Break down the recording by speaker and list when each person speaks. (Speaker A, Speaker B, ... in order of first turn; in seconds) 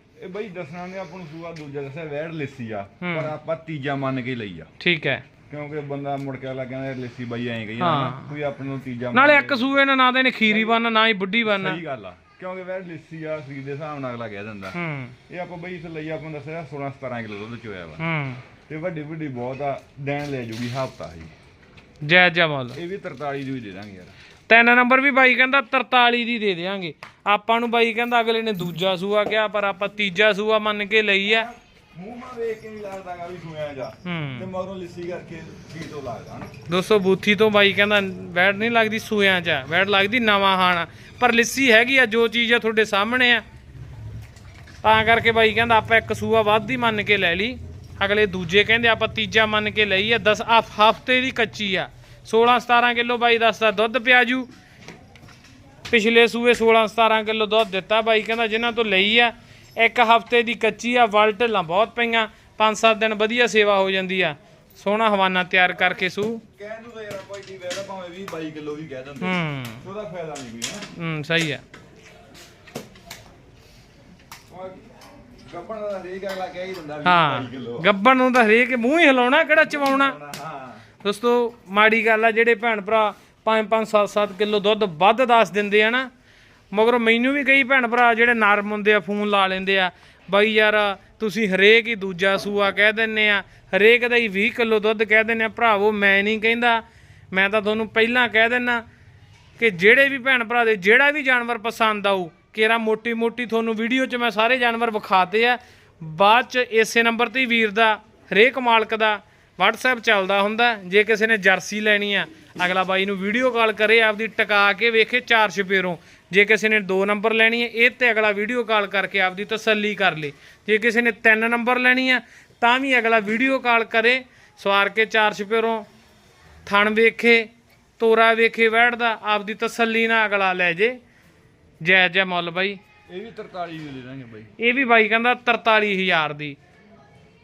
Speaker A: 0.2-4.7, 5.5-9.7, 10.5-10.8, 11.4-14.8, 15.3-18.0, 18.7-21.3, 22.7-24.1, 31.2-36.5, 65.7-70.9, 74.5-74.8, 75.5-77.9, 79.6-80.8, 133.1-134.5
Speaker B: 3.0-3.3, 4.8-5.2, 7.8-8.3, 9.1-11.8, 14.7-15.1, 18.0-18.4, 22.0-22.8, 24.5-31.5, 34.0-34.5, 36.7-43.4, 44.8-54.5, 55.9-66.4, 69.2-69.8, 70.9-71.6, 77.0-80.2, 81.0-86.1, 86.7-98.8, 99.6-125.9, 126.6-127.5, 128.0-131.0, 131.8-132.8, 134.6-136.6